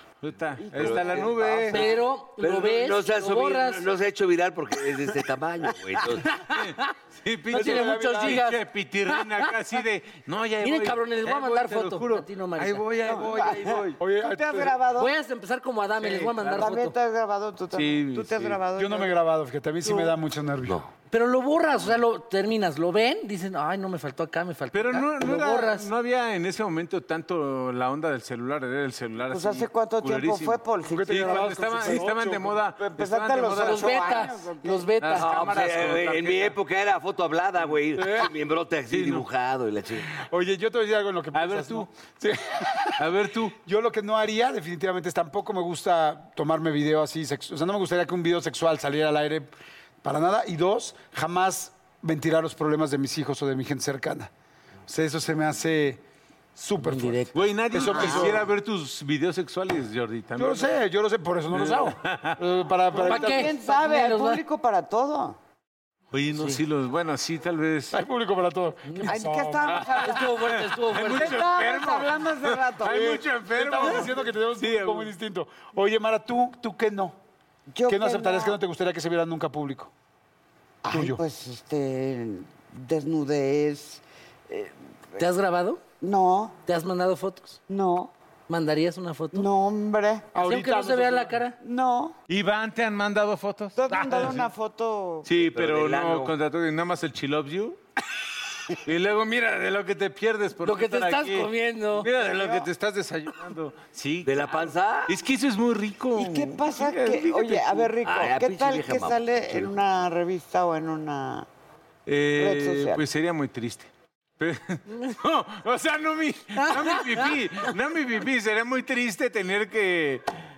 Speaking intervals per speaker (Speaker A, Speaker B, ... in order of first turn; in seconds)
Speaker A: 0.2-1.8, 6.5-14.0, 16.0-16.3, 17.7-18.6, 24.7-34.3, 35.0-36.5, 38.9-39.2, 41.3-41.9, 43.0-43.5, 57.3-60.7, 61.5-62.4, 66.1-68.0, 69.7-75.1, 92.3-94.5, 95.2-97.8, 98.7-107.9, 112.0-120.2
Speaker B: 0.6-1.9, 13.1-15.1, 16.4-19.1, 29.3-32.0, 32.8-34.9, 57.8-58.4, 62.9-65.4, 69.0-70.4, 71.1-73.2, 77.7-78.6, 80.8-85.2, 86.0-86.5, 87.7-88.1, 89.3-90.3, 91.6-92.1, 93.8-95.3, 102.2-102.7, 106.2-111.5, 112.3-113.0
Speaker C: 0.8-6.3, 20.6-20.9, 35.2-40.1, 95.3-96.3, 104.2-105.1, 108.0-109.7
Speaker D: 1.7-3.8, 6.4-6.9, 7.5-9.5, 10.6-12.8, 14.9-16.9, 21.1-25.9, 33.6-35.3, 56.8-57.3, 61.5-61.9, 63.0-64.4, 66.3-66.6, 69.9-71.4, 85.2-85.8, 86.6-87.6, 88.5-89.5, 90.4-91.6, 100.6-102.1, 116.5-117.3
Speaker E: 7.5-8.4, 14.0-14.8, 18.8-20.8, 30.9-32.6, 38.0-38.3, 40.1-43.1, 43.6-49.5, 50.0-54.3, 54.9-56.0, 56.5-58.5, 60.4-63.6, 67.9-69.8, 73.5-77.2, 77.9-79.9, 80.9-81.2, 90.3-91.4